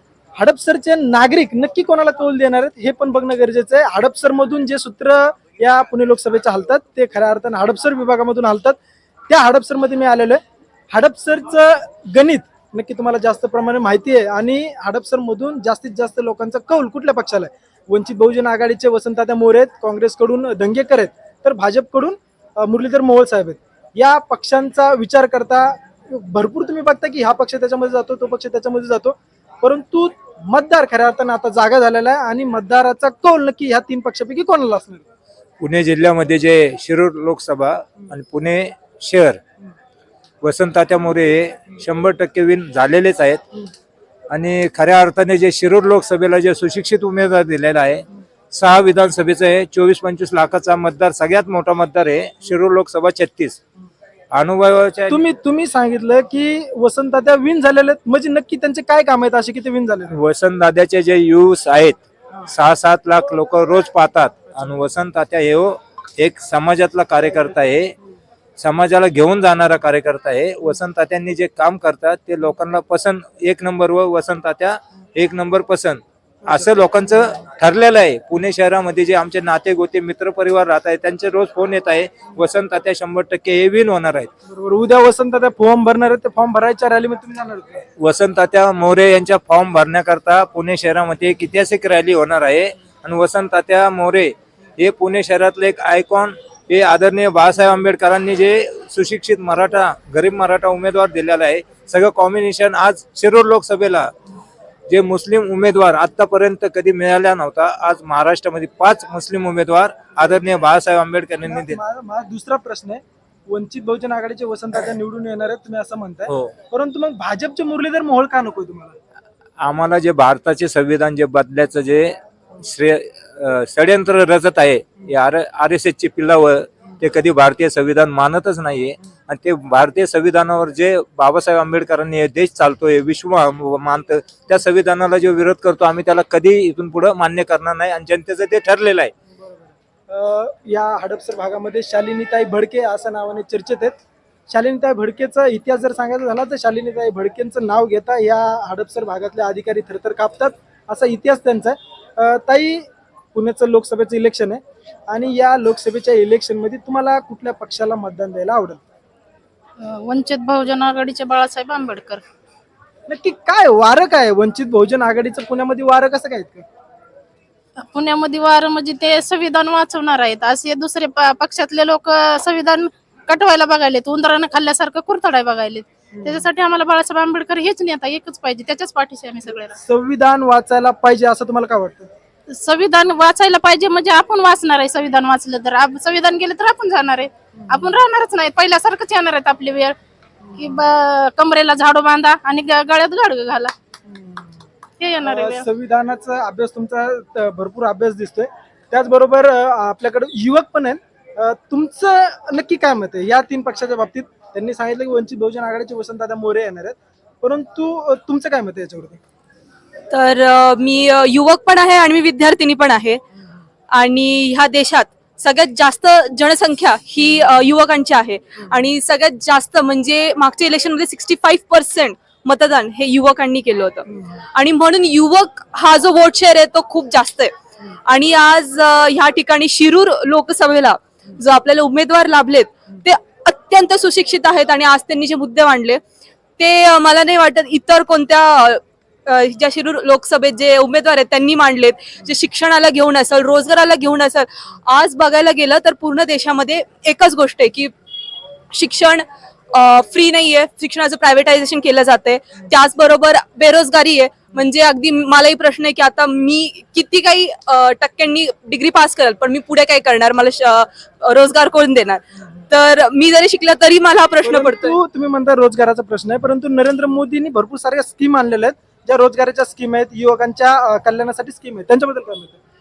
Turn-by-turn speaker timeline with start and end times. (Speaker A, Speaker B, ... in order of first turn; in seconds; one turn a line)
Speaker A: 0.4-8.8
Speaker A: 9.3-35.0
Speaker B: 35.6-39.4
Speaker B: 40.4-43.4
Speaker B: 44.3-53.6
Speaker B: 54.3-55.2
Speaker A: 55.1-60.2
Speaker B: 60.1-68.0
Speaker B: 68.6-84.3
Speaker A: 84.5-87.8
Speaker B: 88.0-104.1
Speaker B: 104.9-111.8
Speaker A: 111.4-119.0
Speaker B: 116.3-116.5
Speaker B: 119.6-139.1
Speaker A: 140.1-144.0
Speaker A: 144.5-158.8
Speaker C: 159.8-162.2
Speaker A: 163.1-166.7
Speaker C: 167.8-179.8
Speaker A: 179.7-182.1
Speaker C: 182.5-190.0
Speaker C: 190.6-193.7
Speaker A: 194.1-194.4
Speaker C: 195.0-195.7
Speaker A: 195.2-209.2
Speaker D: 210.1-213.2
Speaker D: 213.9-227.5
Speaker D: 228.1-236.0
Speaker D: 236.6-247.9
Speaker D: 248.7-265.0
Speaker A: 264.4-272.6